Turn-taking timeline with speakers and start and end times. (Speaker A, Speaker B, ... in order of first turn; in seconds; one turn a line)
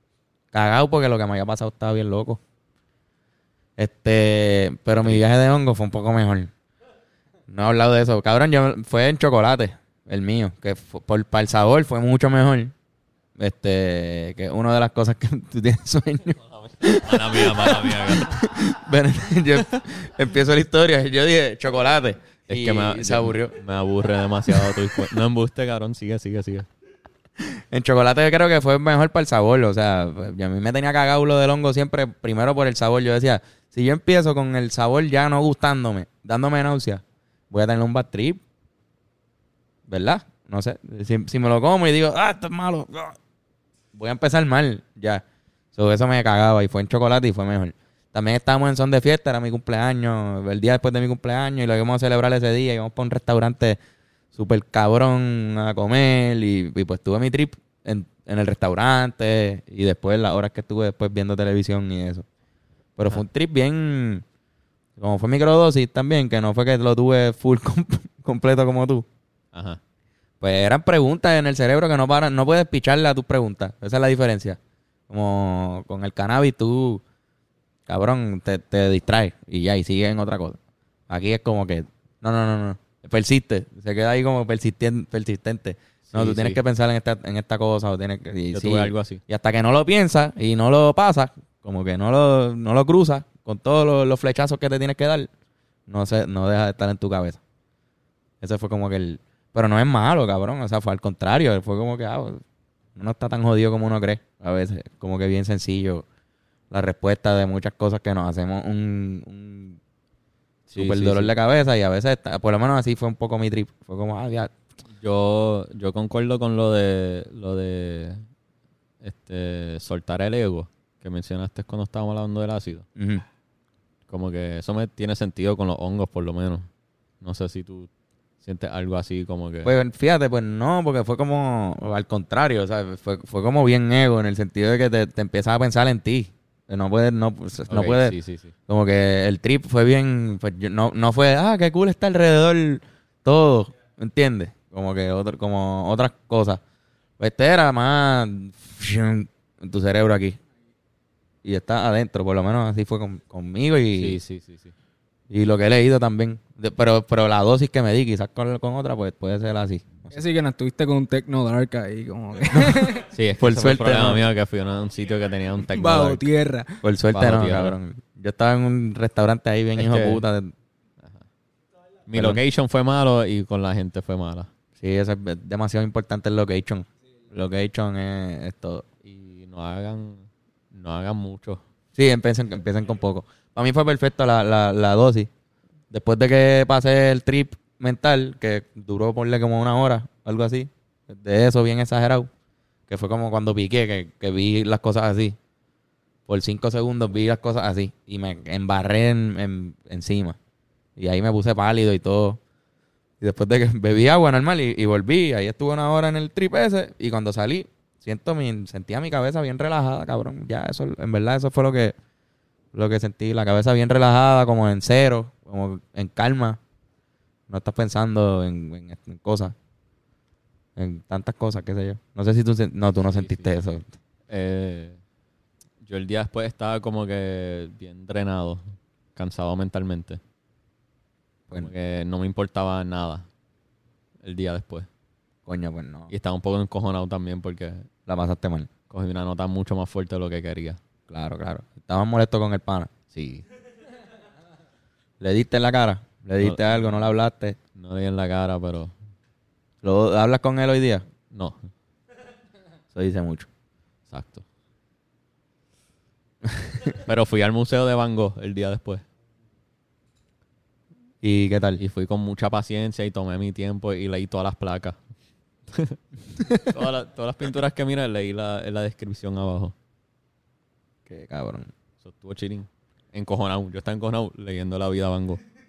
Speaker A: 0.5-2.4
Speaker A: 3.8-6.5
Speaker A: 7.5-12.7
Speaker A: 13.4-23.6
Speaker B: 16.6-18.4
Speaker B: 22.5-26.7
Speaker A: 24.5-25.1
Speaker A: 27.4-38.4
Speaker A: 39.9-43.2
Speaker A: 43.9-53.8
Speaker A: 54.3-62.2
Speaker A: 63.0-64.2
Speaker A: 65.0-69.0
Speaker B: 69.5-69.8
Speaker A: 70.4-77.0
Speaker A: 77.9-80.6
Speaker A: 81.1-95.3
Speaker B: 86.0-86.6
Speaker B: 88.5-89.2
Speaker A: 95.9-97.4
Speaker A: 98.4-102.4
Speaker A: 103.0-106.0
Speaker A: 106.7-109.8
Speaker B: 110.7-111.3
Speaker A: 110.7-114.5
Speaker B: 115.0-118.2
Speaker B: 119.0-122.8
Speaker A: 123.0-123.2
Speaker B: 124.1-126.7
Speaker B: 127.2-127.9
Speaker B: 128.4-129.7
Speaker A: 129.6-138.2
Speaker B: 137.7-138.5
Speaker A: 138.7-146.6
Speaker A: 147.2-150.4
Speaker A: 151.4-154.2
Speaker B: 153.9-154.7
Speaker A: 155.3-160.2
Speaker C: 160.1-163.0
Speaker A: 162.5-164.3
Speaker B: 163.1-166.2
Speaker C: 165.7-166.8
Speaker A: 166.8-170.5
Speaker B: 167.1-167.8
Speaker B: 169.8-170.2
Speaker B: 172.1-174.5
Speaker A: 172.1-172.4
Speaker A: 174.8-178.8
Speaker B: 179.0-181.6
Speaker A: 181.9-185.3
Speaker A: 185.9-192.3
Speaker A: 192.9-195.4
Speaker A: 196.3-200.4
Speaker A: 201.0-202.4
Speaker A: 203.2-211.9
Speaker A: 212.7-216.6
Speaker A: 217.5-219.5
Speaker A: 220.8-223.9
Speaker B: 223.1-223.8
Speaker B: 224.3-225.0
Speaker B: 225.8-230.2
Speaker B: 231.5-233.3
Speaker B: 234.2-234.9
Speaker A: 235.4-236.1
Speaker B: 236.1-237.9
Speaker A: 238.1-238.7
Speaker B: 238.9-240.8
Speaker A: 241.1-242.9
Speaker B: 243.1-243.4
Speaker A: 245.2-247.6
Speaker B: 247.7-248.9
Speaker A: 249.8-251.0
Speaker B: 251.3-251.7
Speaker A: 252.9-253.5
Speaker B: 254.1-254.4
Speaker B: 256.8-259.0
Speaker A: 261.2-261.8
Speaker B: 261.8-265.0
Speaker B: 265.7-269.7
Speaker A: 271.1-271.7
Speaker B: 272.0-275.4